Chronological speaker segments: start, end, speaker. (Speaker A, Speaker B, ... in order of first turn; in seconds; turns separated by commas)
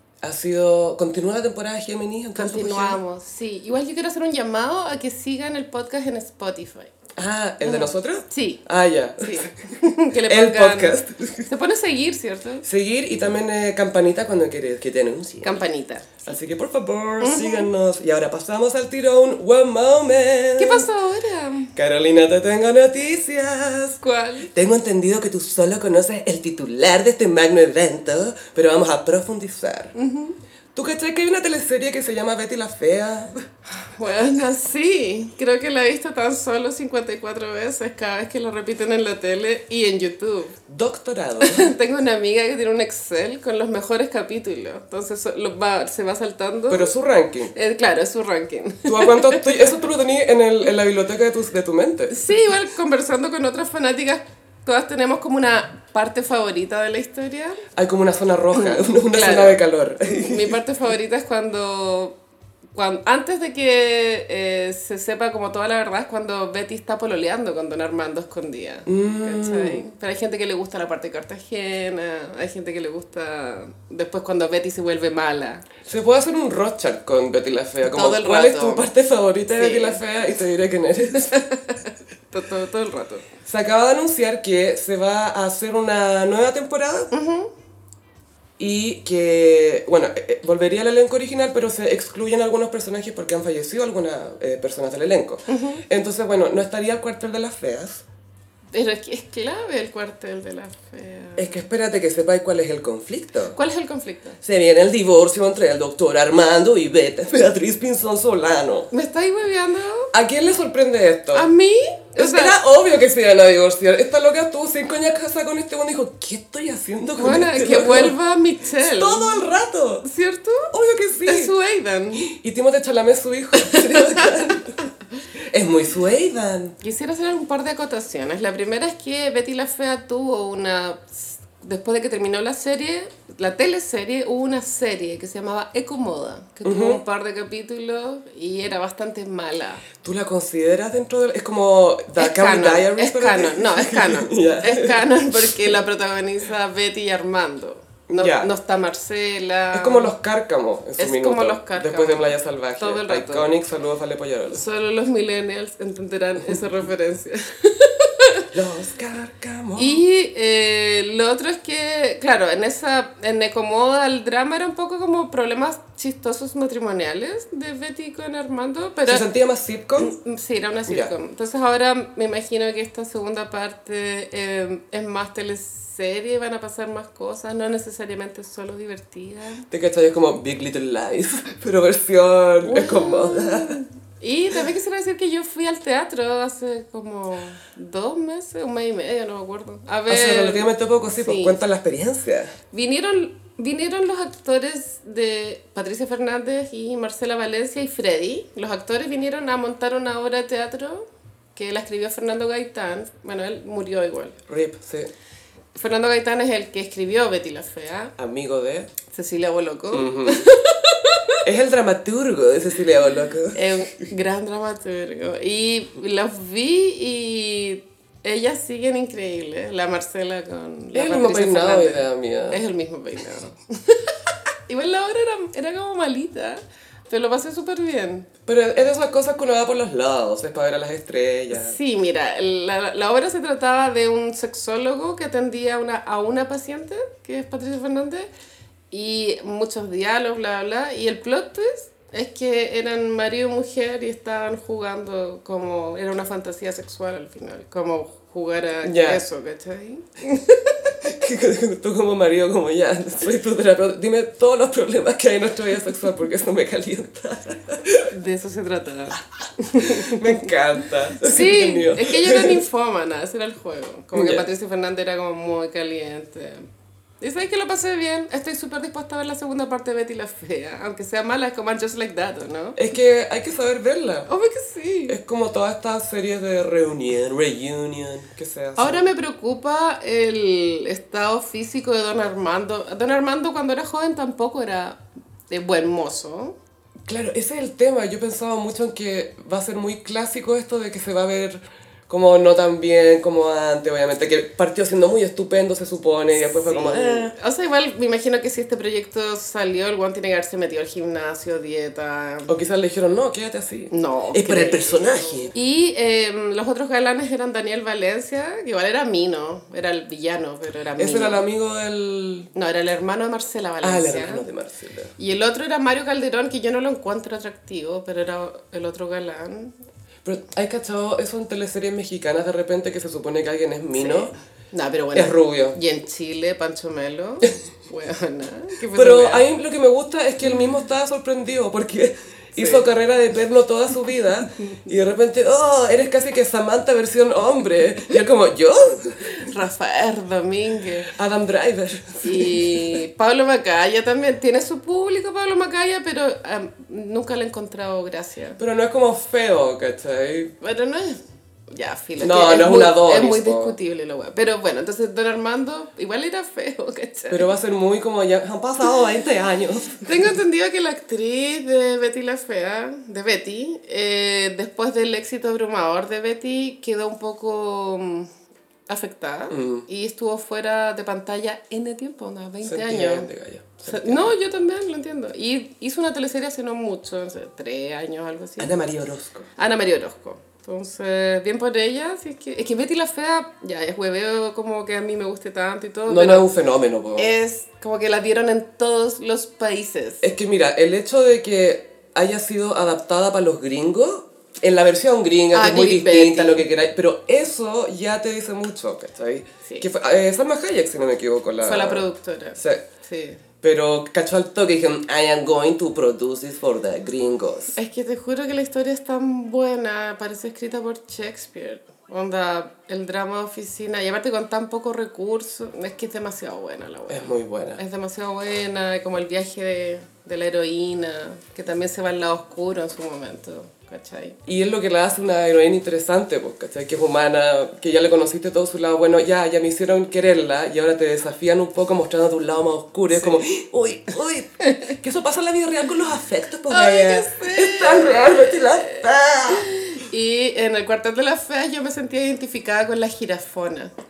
Speaker A: 0.2-3.0, Speaker B: 2.4-6.9, Speaker A: 7.2-9.5, Speaker B: 7.6-8.6, Speaker B: 9.2-12.7, Speaker A: 10.3-11.5, Speaker A: 12.6-15.6, Speaker B: 15.4-16.2, Speaker A: 16.2-20.9, Speaker B: 17.2-17.7, Speaker B: 20.6-21.7, Speaker A: 21.8-29.9, Speaker B: 24.0-24.5, Speaker B: 29.9-30.4, Speaker A: 30.8-33.4, Speaker B: 33.8-40.6, Speaker A: 40.7-41.7, Speaker B: 41.4-46.9, Speaker A: 46.7-47.5, Speaker B: 47.5-49.7, Speaker A: 48.9-52.3, Speaker B: 52.1-57.6, Speaker A: 57.8-60.6, Speaker B: 58.5-62.2, Speaker B: 62.8-75.7, Speaker A: 68.9-69.8, Speaker A: 75.8-81.4, Speaker B: 77.9-78.9, Speaker B: 79.6-80.0, Speaker B: 81.1-83.3, Speaker A: 83.5-87.1, Speaker B: 87.1-87.5, Speaker A: 88.6-98.0, Speaker B: 95.5-95.8, Speaker B: 98.7-101.6, Speaker A: 101.4-103.6, Speaker B: 103.5-104.4, Speaker A: 104.4-108.9, Speaker B: 108.9-110.1, Speaker A: 110.1-111.5, Speaker B: 111.3-112.6, Speaker A: 112.2-118.2, Speaker B: 117.2-119.5, Speaker A: 118.8-120.1, Speaker B: 120.0-120.7, Speaker A: 120.7-121.5, Speaker B: 121.3-122.3, Speaker A: 122.2-124.8, Speaker B: 123.6-124.6, Speaker A: 125.5-126.8, Speaker B: 126.8-139.8, Speaker A: 136.6-137.0, Speaker A: 140.0-145.8, Speaker B: 142.2-150.1, Speaker A: 148.1-148.5, Speaker A: 149.7-154.7, Speaker B: 151.0-153.5, Speaker B: 154.5-158.5, Speaker A: 158.5-160.0, Speaker B: 159.8-169.2, Speaker A: 169.1-170.2, Speaker B: 170.0-179.7, Speaker A: 179.7-183.8, Speaker B: 182.6-191.6, Speaker A: 190.1-192.5, Speaker B: 192.7-204.4, Speaker A: 204.5-205.1, Speaker B: 205.8-208.1, Speaker A: 208.2-208.9, Speaker B: 209.1-211.4, Speaker A: 209.9-210.5, Speaker A: 211.4-213.9, Speaker B: 213.5-228.3, Speaker A: 220.9-222.6, Speaker A: 228.5-231.8, Speaker B: 231.5-238.3, Speaker B: 238.9-251.0, Speaker A: 248.8-249.2, Speaker A: 251.0-258.1, Speaker B: 258.1-260.5, Speaker A: 259.8-262.6, Speaker B: 261.2-266.7, Speaker A: 264.1-264.5, Speaker B: 267.2-272.8, Speaker A: 272.8-274.3, Speaker B: 274.3-275.2, Speaker A: 275.1-279.1, Speaker B: 278.8-286.6, Speaker A: 287.1-297.3, Speaker B: 296.4-302.5, Speaker A: 302.5-305.5, Speaker B: 303.9-311.4, Speaker A: 311.0-312.5, Speaker B: 312.6-314.5, Speaker A: 313.8-315.1, Speaker B: 315.2-319.8, Speaker A: 320.2-324.3, Speaker B: 323.9-329.5, Speaker A: 325.1-325.8, Speaker A: 328.9-339.2, Speaker B: 332.6-332.9, Speaker B: 339.2-341.1, Speaker A: 341.1-343.0, Speaker B: 342.2-348.6, Speaker A: 348.6-350.5, Speaker B: 350.6-351.2, Speaker B: 351.7-357.5, Speaker A: 352.2-353.8, Speaker A: 357.3-360.1, Speaker B: 360.1-368.3, Speaker B: 368.9-373.3, Speaker A: 369.5-369.9, Speaker A: 372.6-374.3, Speaker B: 373.9-378.8, Speaker A: 378.6-379.5, Speaker B: 379.6-386.5, Speaker A: 386.1-387.4, Speaker B: 387.2-390.2, Speaker A: 390.2-402.8, Speaker B: 395.5-396.7, Speaker B: 401.6-403.4, Speaker A: 403.6-407.7, Speaker B: 407.8-424.4, Speaker A: 417.1-417.8, Speaker A: 424.5-439.7, Speaker B: 433.1-433.4, Speaker B: 436.7-443.9